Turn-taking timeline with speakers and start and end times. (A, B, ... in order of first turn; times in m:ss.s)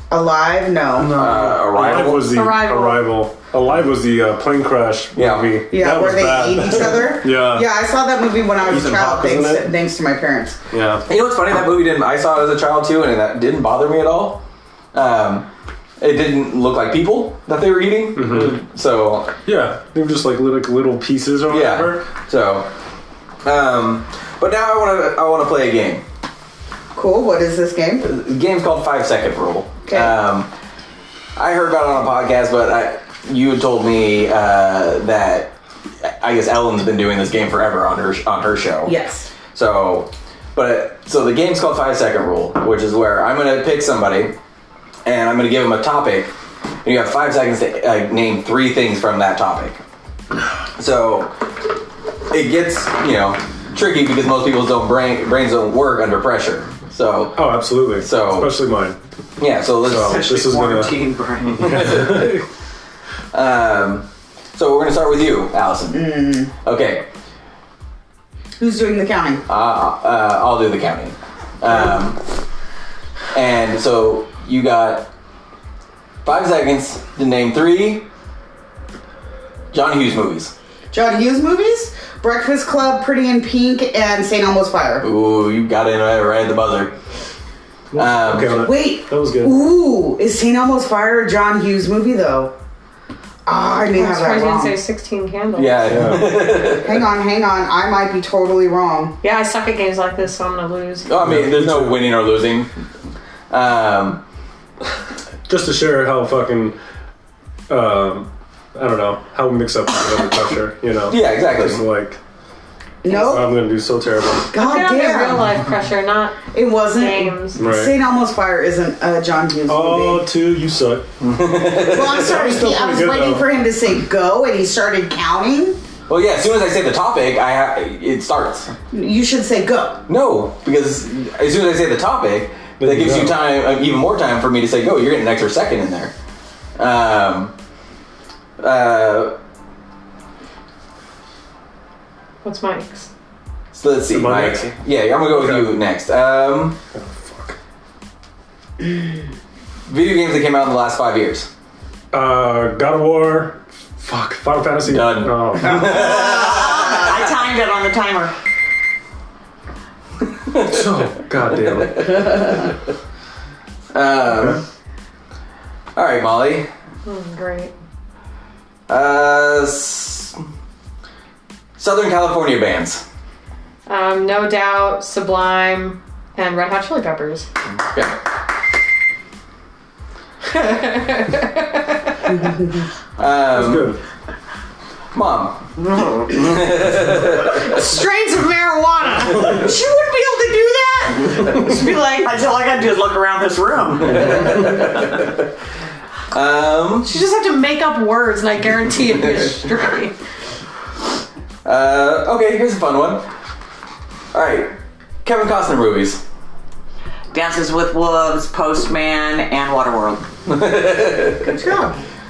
0:00.1-0:01.2 A
0:01.0-0:07.7 B
0:01.1-0:02.4 C
0:01.9-0:03.2 D
0:05.2-0:05.6 C
0:05.7-0:10.6 A
0:08.6-0:09.7 B
0:10.7-0:11.0 B
0:11.1-0:14.4 C
0:14.9-0:15.5 C
0:16.0-0:19.3 C
0:18.1-0:18.6 B
0:19.4-0:22.0 B
0:21.5-0:22.7 C
0:23.4-0:26.0 C
0:26.9-0:28.1 A
0:28.0-0:30.5 C
0:29.9-0:30.1 A
0:31.4-0:35.5 C
0:36.0-0:39.0 C
0:38.8-0:39.3 A
0:39.5-0:44.4 C
0:45.0-0:46.3 C
0:46.8-0:49.8 C
0:50.8-0:51.3 C
0:52.3-0:58.5 C
0:57.4-0:59.0 B
0:59.4-1:00.3 C
0:59.8-1:01.0 B
1:00.0-1:02.2 E
1:01.6-1:02.4 C
1:01.7-1:02.4 B
1:03.3-1:07.0 C
1:05.9-1:06.5 A
1:08.6-1:09.4 A
1:09.5-1:12.2 C
1:13.3-1:15.1 C
1:16.2-1:18.1 C
1:19.7-1:20.5 C
1:20.9-1:25.1 A
1:25.0-1:27.0 C
1:27.9-1:29.6 B
1:28.0-1:28.7 C
1:28.5-1:32.5 A
1:33.5-1:34.8 A
1:33.9-1:35.9 D
1:35.6-1:37.1 C
1:35.9-1:36.4 B
1:36.4-1:39.2 A
1:39.2-1:41.1 D
1:41.1-1:42.7 C
1:41.2-1:42.1 B
1:43.5-1:44.2 C
1:45.5-1:46.8 B
1:47.7-1:52.2 B
1:51.1-1:51.8 C
1:53.0-1:53.6 A
1:53.1-1:54.5 B
1:54.5-1:55.6 A
1:54.6-1:57.6 D
1:56.5-2:00.2 A
1:57.6-1:58.0 B
1:59.7-2:01.1 B
2:01.2-2:02.4 C
2:01.8-2:05.8 A
2:02.1-2:03.5 B
2:06.1-2:08.7 C
2:08.9-2:10.0 A
2:10.1-2:16.1 C
2:12.8-2:13.4 B
2:16.8-2:17.5 C
2:18.6-2:19.4 C
2:22.4-2:23.1 D
2:23.7-2:26.8 C
2:24.1-2:24.7 B
2:25.3-2:25.8 B
2:26.9-2:27.6 B
2:29.9-2:31.5 C
2:32.1-2:35.9 B
2:34.8-2:37.3 C
2:35.8-2:38.3 E
2:40.5-2:42.8 C
2:40.6-2:42.5 B
2:43.9-2:44.6 C
2:44.3-2:44.6 B
2:46.0-2:46.7 C
2:47.1-2:47.7 D
2:48.9-2:50.3 C
2:51.8-2:53.0 C
2:53.9-2:57.5 D
2:57.9-2:58.2 C
3:00.5-3:02.2 D
3:03.2-3:04.0 C
3:03.5-3:04.0 B
3:05.1-3:07.8 C
3:05.8-3:06.4 E
3:07.7-3:09.5 D
3:09.2-3:12.3 A
3:12.2-3:14.9 E
3:14.2-3:15.4 C
3:16.3-3:17.1 C
3:17.0-3:20.2 D
3:21.6-3:23.2 C
3:24.3-3:26.2 C
3:27.3-3:30.3 E
3:30.5-3:31.6 C
3:31.4-3:32.0 A